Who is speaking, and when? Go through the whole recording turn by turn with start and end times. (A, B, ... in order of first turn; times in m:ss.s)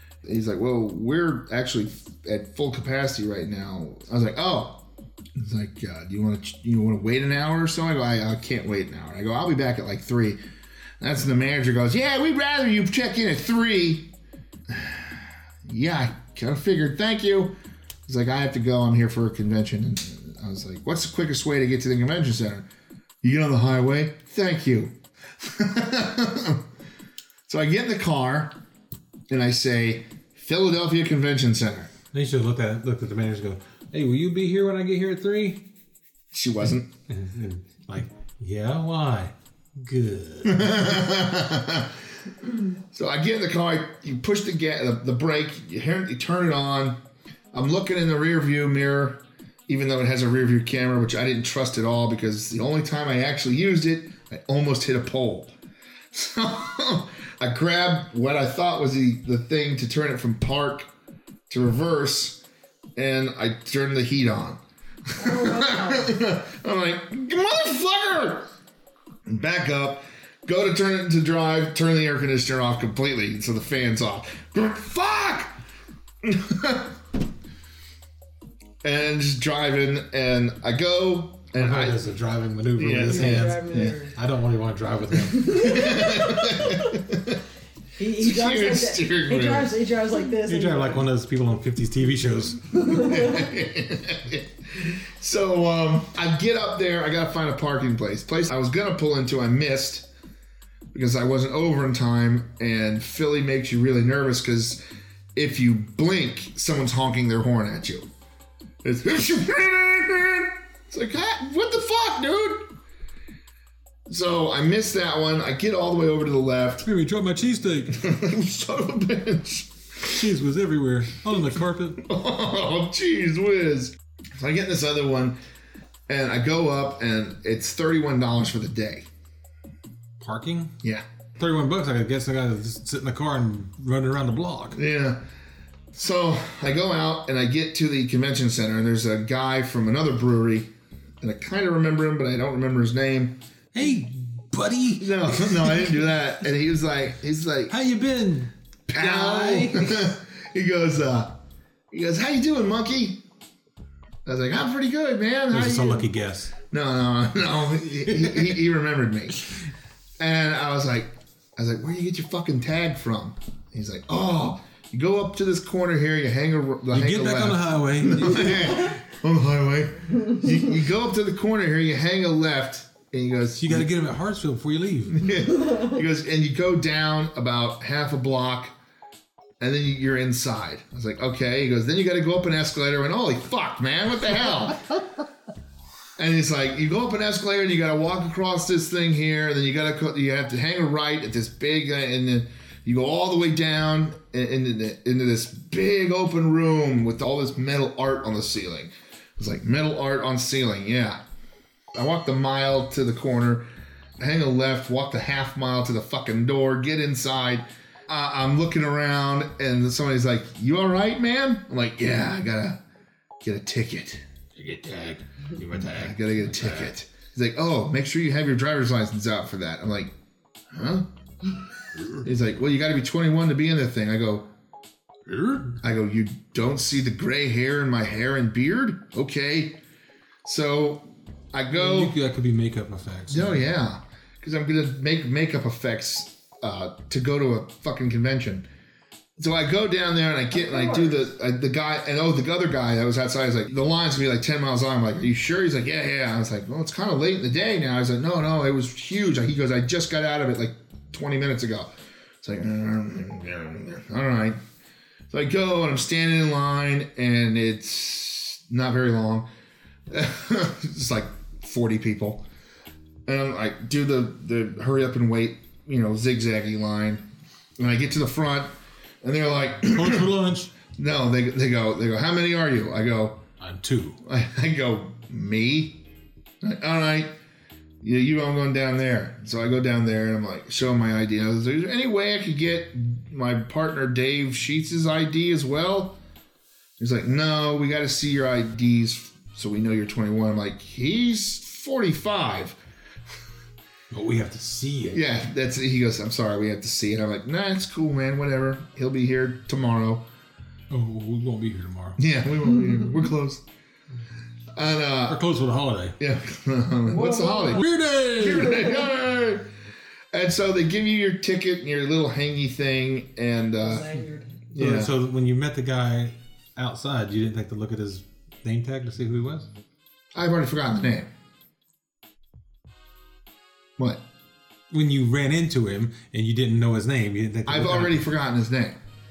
0:00.2-0:10.4 A
0:11.0-0:14.1 A
0:14.7-0:22.7 A
0:23.2-0:26.6 A
0:27.5-0:28.6 A
0:29.3-0:31.9 A
0:32.1-0:35.7 B
0:36.3-0:36.9 A
0:37.1-0:40.9 B
0:40.4-0:42.0 A
0:42.9-0:47.0 A
0:47.5-0:55.5 A
0:56.1-1:00.9 A
1:01.5-1:02.4 A
1:03.0-1:04.6 A
1:05.1-1:08.5 A
1:05.2-1:06.2 C
1:09.3-1:15.6 A
1:16.2-1:17.0 A
1:18.8-1:22.0 A
1:21.6-1:25.9 B
1:22.8-1:24.0 A
1:23.0-1:24.1 C
1:25.4-1:26.7 C
1:25.5-1:27.4 A
1:28.0-1:31.1 C
1:28.2-1:29.8 A
1:30.5-1:32.9 B
1:32.8-1:40.1 A
1:32.9-1:33.5 C
1:40.9-1:44.8 A
1:45.4-1:48.1 A
1:48.8-1:52.7 A
1:54.1-1:56.9 A
1:56.8-1:58.0 B
1:57.9-2:00.2 A
2:00.1-2:02.0 B
2:02.0-2:05.4 A
2:06.1-2:09.1 A
2:10.2-2:10.7 B
2:11.4-2:14.8 B
2:14.7-2:15.2 A
2:15.9-2:20.7 A
2:21.2-2:23.4 A
2:23.7-2:26.0 B
2:25.0-2:27.8 A
2:27.7-2:30.1 B
2:28.9-2:31.4 A
2:31.9-2:33.2 A
2:34.2-2:36.1 A
2:35.5-2:36.5 B
2:36.7-2:39.5 A
2:40.2-2:53.9 A
2:46.9-2:48.8 B
2:53.6-2:55.3 B
2:55.1-2:58.8 A
2:59.6-3:05.0 A
3:06.2-3:21.2 A
3:21.9-3:23.7 A
3:24.2-3:32.8 A
3:33.4-3:34.2 A
3:34.6-3:36.9 B
3:35.8-3:40.1 A
3:40.7-3:41.1 A
3:42.2-3:44.5 A
3:45.3-3:45.8 B
3:45.8-3:49.8 A
3:50.4-3:52.2 A
3:51.7-3:53.6 B
3:53.3-3:58.7 A
3:59.4-4:11.9 A
4:00.5-4:01.3 C
4:12.4-4:14.6 A
4:15.3-4:19.5 A
4:20.1-4:22.4 A
4:23.3-4:27.2 A
4:27.8-4:30.4 A
4:29.9-4:30.7 B
4:31.0-4:33.4 A
4:33.6-4:34.2 B
4:34.2-4:36.0 A
4:36.6-4:37.4 A
4:38.0-4:46.2 A
4:47.0-4:52.8 A
4:54.1-4:55.2 B
4:55.1-5:00.3 A
5:00.9-5:02.2 B
5:02.2-5:03.6 A
5:04.7-5:05.4 A
5:05.3-5:06.2 B
5:06.2-5:09.7 A
5:07.1-5:07.8 C
5:07.7-5:08.9 B
5:10.3-5:14.1 A
5:13.8-5:14.7 C
5:14.8-5:15.1 A
5:14.8-5:19.7 B
5:20.4-5:21.3 A
5:24.9-5:28.2 B
5:27.7-5:29.0 A